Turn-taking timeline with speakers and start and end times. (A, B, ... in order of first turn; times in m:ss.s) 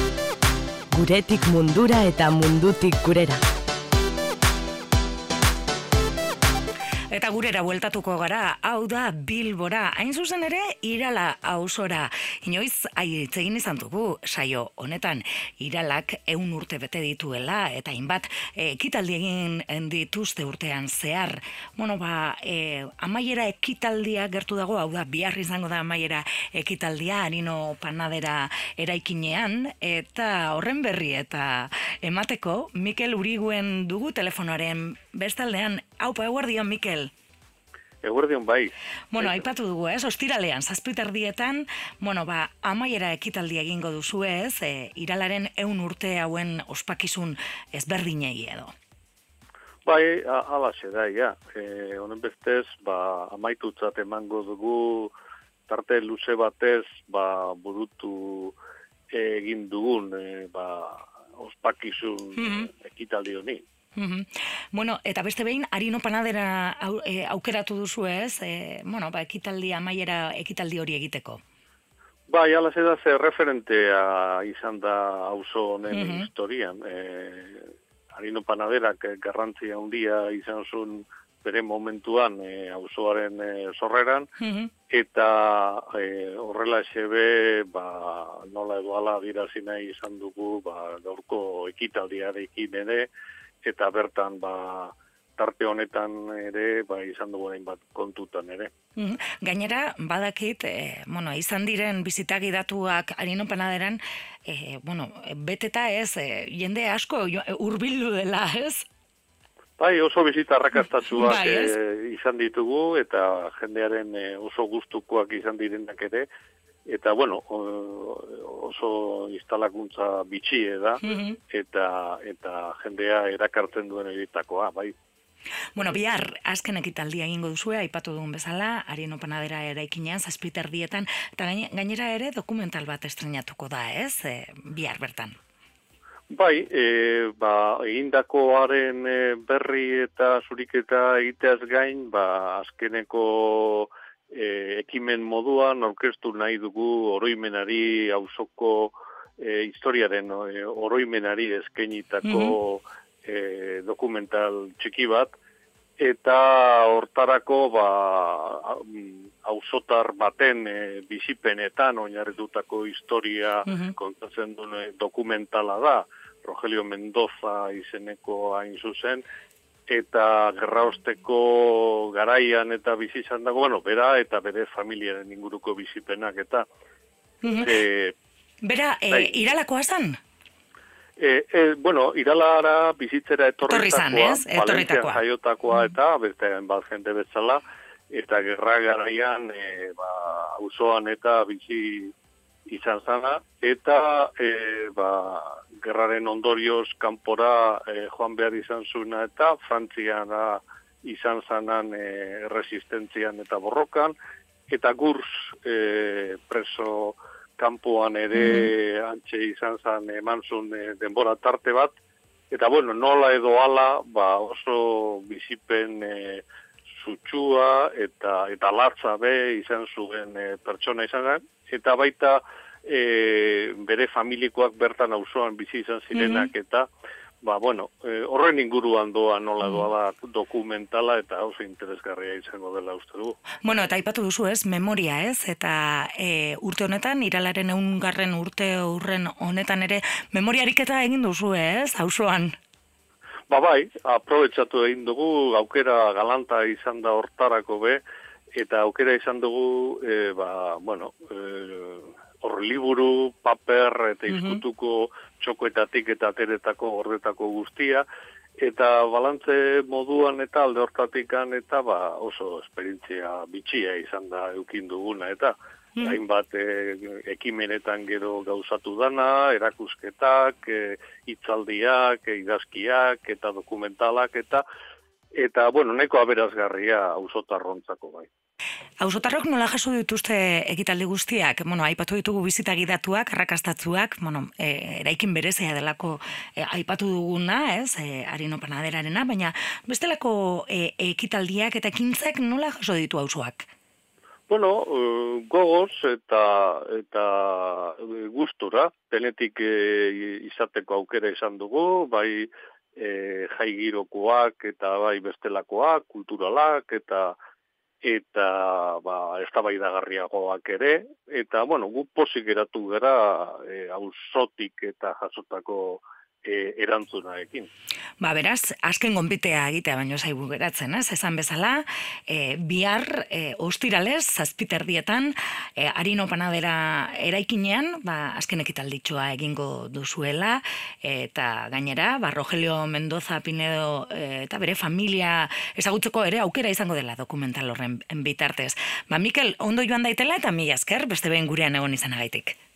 0:00.9-0:03.4 A
0:07.1-0:37.1 B
0:38.0-0:39.5 C
0:39.1-0:48.7 B
0:49.8-0:55.1 C
0:55.7-0:58.6 C
0:59.1-1:03.6 C
1:02.4-1:02.7 B
1:04.0-1:11.4 B
1:12.3-1:24.3 C
1:15.9-1:16.3 B
1:24.4-1:24.7 B
1:24.9-1:33.1 C
1:33.6-1:38.7 C
1:39.0-1:48.9 B
1:49.8-1:56.3 C
1:50.8-1:51.8 B
1:56.9-2:04.9 C
2:01.0-2:01.4 B
2:05.8-2:15.4 B
2:16.3-2:35.3 C
2:32.2-2:32.6 B
2:36.0-2:49.2 C
2:43.7-2:43.9 B
2:49.9-2:56.7 C
2:57.4-2:57.8 B
2:57.6-2:58.2 C
2:58.6-3:00.2 B
2:59.1-2:59.4 C
3:01.2-3:12.1 C
3:03.7-3:05.9 B
3:12.7-3:24.2 C
3:24.7-3:32.0 C
3:28.4-3:28.7 B
3:32.5-3:46.9 C
3:46.1-3:46.5 B
3:47.4-3:53.4 C
3:49.6-3:49.9 B
3:53.6-4:02.5 B
4:03.5-4:08.0 C
4:08.6-4:18.0 C
4:14.3-4:14.6 B
4:18.6-4:34.6 C
4:35.4-4:38.3 C
4:39.0-4:53.7 B
4:54.5-5:07.4 C
5:08.0-5:17.7 C
5:18.2-5:42.6 B